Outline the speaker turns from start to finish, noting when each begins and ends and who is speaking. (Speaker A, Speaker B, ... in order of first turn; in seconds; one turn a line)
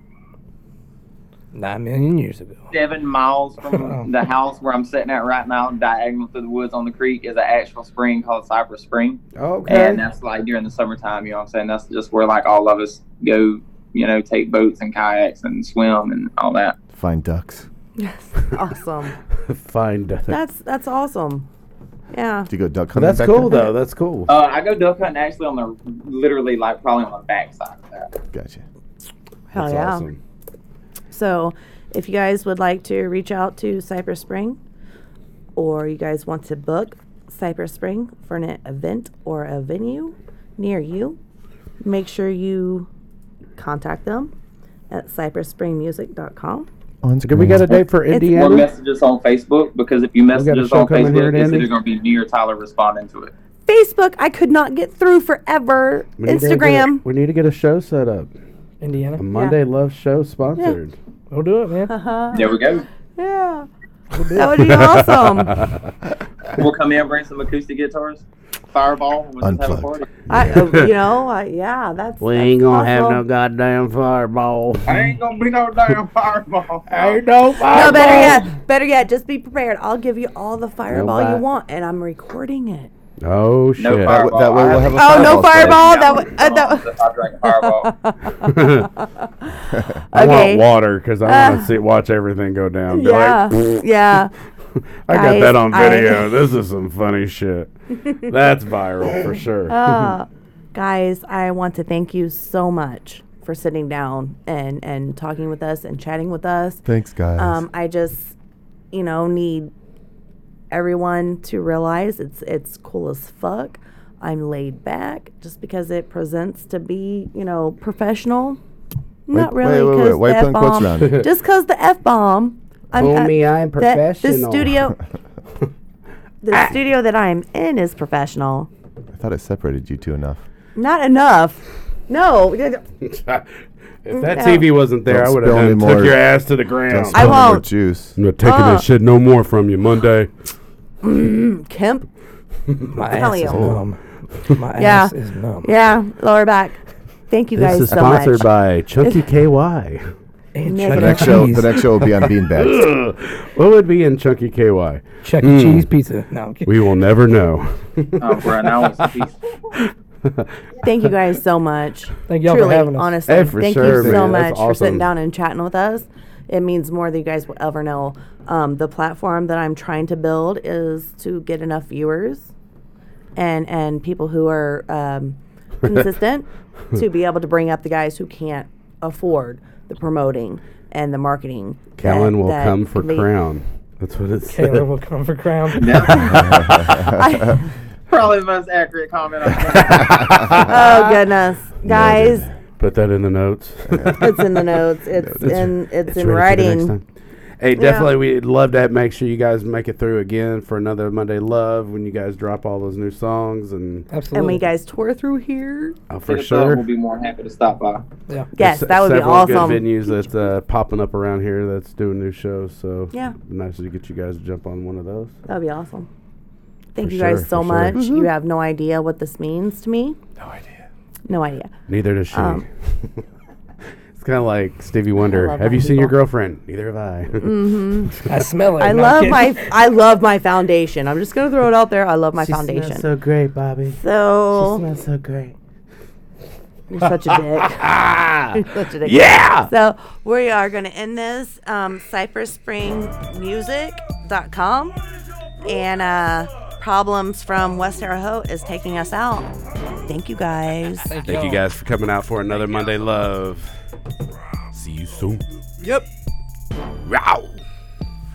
Speaker A: 1.5-2.7
Speaker B: 2.7-16.7
Speaker A: 3.7-4.1
Speaker C: 9.4-10.0
Speaker D: 9.7-10.0
Speaker E: 16.9-17.7
Speaker D: 18.0-19.1
Speaker C: 19.4-20.4
Speaker D: 20.3-21.4
Speaker D: 22.1-22.5
Speaker E: 22.5-23.7
Speaker C: 22.9-24.3
Speaker B: 24.3-28.1
Speaker E: 28.3-28.6
Speaker D: 29.5-30.1
Speaker C: 29.5-30.2
Speaker D: 31.1-34.6
Speaker D: 35.5-41.2
Speaker D: 41.8-42.9
Speaker D: 43.6-44.3
Speaker D: 44.9-46.7
Speaker E: 47.0-47.8
Speaker C: 47.2-48.7
Speaker D: 48.1-48.5
Speaker B: 48.3-53.3
Speaker C: 50.3-51.7
Speaker D: 53.7-57.0
Speaker C: 56.2-58.3
Speaker A: 58.8-59.2
Speaker C: 59.2-60.9
Speaker A: 61.3-61.9
Speaker D: 61.9-62.6
Speaker B: 62.3-62.9
Speaker D: 63.2-63.7
Speaker A: 64.1-64.8
Speaker D: 64.3-65.6
Speaker C: 64.6-65.9
Speaker B: 66.5-70.1
Speaker E: 69.4-70.5
Speaker D: 70.3-73.2
Speaker C: 70.5-70.8
Speaker F: 72.2-75.1
Speaker B: 74.8-78.4
Speaker C: 76.9-78.4
Speaker D: 77.6-82.9
Speaker C: 80.9-81.4
Speaker C: 83.2-84.3
Speaker B: 83.8-87.9
Speaker E: 84.0-85.9
Speaker D: 84.9-86.9
Speaker D: 87.4-89.5
Speaker C: 88.4-88.9
Speaker D: 90.1-90.7
Speaker C: 90.1-93.8
Speaker D: 91.2-91.7
Speaker D: 92.9-94.3
Speaker C: 95.1-100.1
Speaker D: 95.1-96.3
Speaker D: 99.7-106.8
Speaker E: 106.8-107.6
Speaker D: 107.3-108.3
Speaker D: 108.9-109.7
Speaker D: 110.7-118.6
Speaker D: 119.2-125.0
Speaker E: 119.3-121.3
Speaker C: 121.0-121.3
Speaker C: 122.9-124.8
Speaker D: 126.4-128.7
Speaker E: 129.1-130.4
Speaker D: 130.8-132.8
Speaker C: 133.0-137.5
Speaker D: 134.1-134.7
Speaker E: 135.1-138.2
Speaker D: 137.1-137.7
Speaker C: 138.2-140.3
Speaker D: 138.4-138.8
Speaker D: 141.0-142.1
Speaker A: 142.9-145.7
Speaker D: 143.1-143.8
Speaker C: 143.4-143.8
Speaker D: 144.8-148.5
Speaker C: 147.6-150.1
Speaker A: 150.5-151.7
Speaker D: 150.7-151.5
Speaker E: 150.9-152.8
Speaker C: 151.8-155.9
Speaker A: 155.2-156.7
Speaker C: 156.7-160.5
Speaker B: 158.2-159.4
Speaker D: 160.8-172.5
Speaker A: 162.3-163.2
Speaker C: 163.3-165.1
Speaker A: 163.8-164.2
Speaker D: 173.3-183.3
Speaker C: 182.0-184.9
Speaker A: 184.5-186.4
Speaker C: 185.7-187.1
Speaker B: 185.8-186.7
Speaker E: 186.2-187.6
Speaker D: 187.2-187.6
Speaker B: 188.1-190.8
Speaker C: 189.7-191.1
Speaker D: 190.6-192.5
Speaker E: 191.8-192.5
Speaker C: 192.8-197.0
Speaker E: 193.9-194.1
Speaker D: 194.2-196.9
Speaker C: 197.6-204.1
Speaker D: 197.8-198.1
Speaker A: 204.1-204.6
Speaker D: 204.3-205.9
Speaker C: 206.1-206.8
Speaker B: 206.3-208.0
Speaker D: 208.5-209.9
Speaker C: 208.6-215.3
Speaker D: 215.5-216.1
Speaker D: 216.9-220.2
Speaker C: 217.0-218.1
Speaker E: 217.1-218.2
Speaker E: 220.4-220.8
Speaker D: 221.3-221.7
Speaker C: 221.9-223.2
Speaker D: 222.3-222.6
Speaker C: 224.1-228.2
Speaker D: 225.2-226.2
Speaker D: 227.4-228.2
Speaker A: 228.2-229.7
Speaker D: 228.8-233.1
Speaker C: 232.4-234.0
Speaker D: 234.0-234.8
Speaker C: 234.5-235.5
Speaker D: 236.9-237.9
Speaker C: 237.7-239.7
Speaker D: 238.5-245.0
Speaker D: 245.6-249.5
Speaker D: 250.0-251.2
Speaker A: 251.1-251.7
Speaker C: 251.2-253.8
Speaker C: 254.7-255.4
Speaker C: 257.0-257.6